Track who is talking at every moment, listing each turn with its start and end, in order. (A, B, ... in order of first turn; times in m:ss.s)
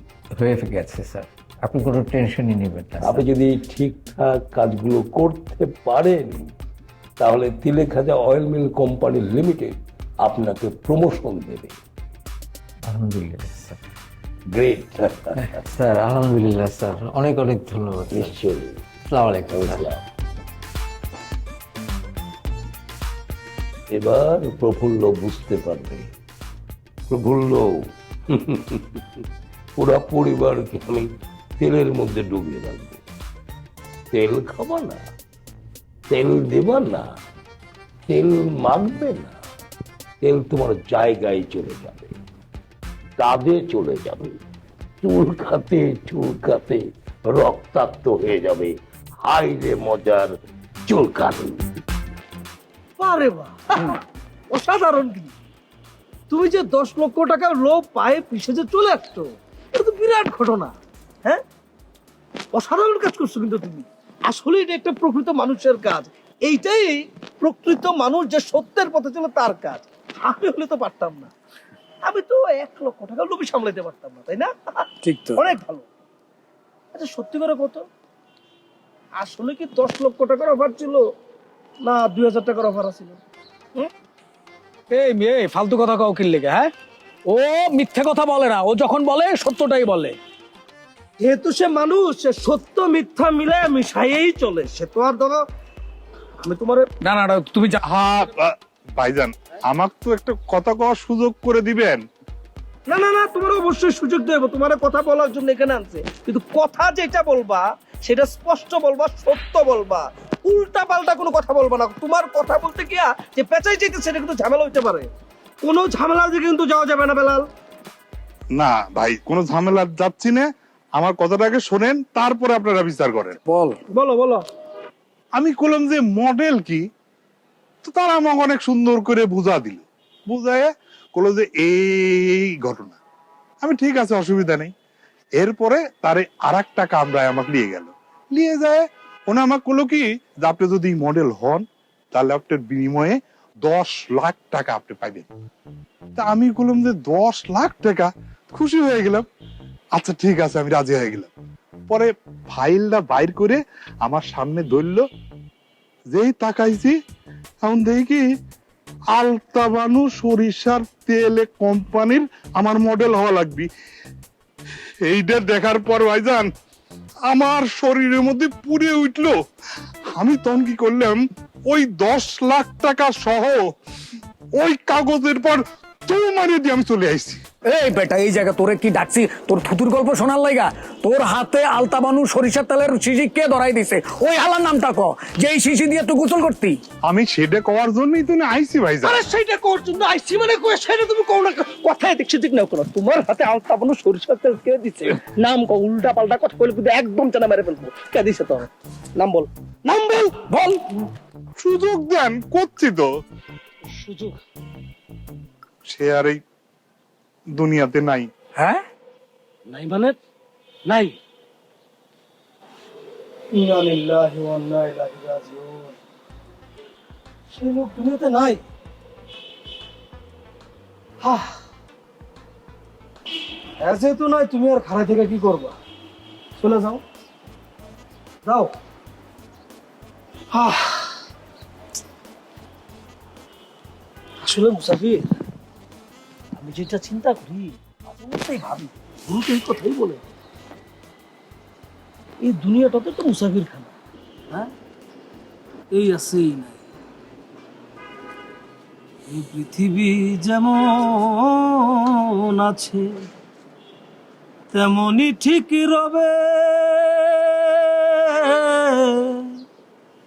0:00.4-0:03.2 A
0:03.0-0:06.5 B
0:07.2-0:11.8 B
0:12.9-0:13.8 A
0:14.5-0:15.4 B
0:15.4-0:18.3 A
0:18.1-0:18.8 B
0:19.1-0:19.8 A
0:19.5-0:20.0 B
0:23.9-0:26.1 B
0:27.1-0:29.2 B
0:29.8-0:31.1 B
0:31.6-0:33.0 B
0:34.1-0:35.0 B
0:36.1-0:37.1 B
0:38.1-0:39.4 B
0:40.2-0:42.2 B
0:43.2-0:44.4 B
0:45.0-0:50.3 B
0:50.8-0:51.6 B
0:53.0-0:55.3 C
0:56.3-1:01.4 C
1:02.5-1:11.3 C
1:12.0-1:15.8 C
1:15.0-1:15.4 D
1:16.9-1:17.9 C
1:19.2-1:21.1 C
1:21.8-1:23.2 C
1:24.9-1:26.7 D
1:27.3-1:30.2 D
1:31.2-1:35.4 C
1:36.4-1:36.9 C
1:37.0-1:37.8 D
1:37.9-1:42.0 E
1:42.9-1:55.1 C
1:55.6-1:57.5 C
1:58.6-2:03.4 E
2:03.5-2:03.8 D
2:03.9-2:04.4 C
2:05.4-2:06.8 E
2:07.8-2:13.0 E
2:13.6-2:14.7 E
2:15.4-2:25.3 E
2:26.2-2:29.3 E
2:29.9-2:31.3 E
2:31.9-2:35.0 E
2:36.1-2:37.0 E
2:37.6-2:38.2 E
2:39.1-2:43.7 E
2:45.0-2:46.5 E
2:47.3-2:49.3 E
2:50.2-2:51.2 E
2:51.7-2:53.6 E
2:54.6-2:57.4 E
2:57.6-3:06.8 D
3:07.0-3:09.1 E
3:09.0-3:20.4 C
3:20.5-3:20.8 D
3:21.6-3:23.1 E
3:23.9-3:24.4 C
3:25.9-3:26.4 E
3:27.5-3:28.3 E
3:28.6-3:28.8 D
3:29.7-3:30.2 C
3:30.8-3:31.2 C
3:33.5-3:36.0 C
3:37.5-3:38.6 C
3:41.2-3:41.6 C
3:43.8-3:45.8 C
3:46.6-3:47.0 C
3:48.4-3:48.7 C
3:50.5-3:51.2 C
3:54.4-3:55.2 C
3:56.6-4:00.2 C
4:02.4-4:03.9 C
4:05.9-4:06.8 C
4:09.3-4:11.7 C
4:12.5-4:13.1 C
4:14.7-4:19.4 C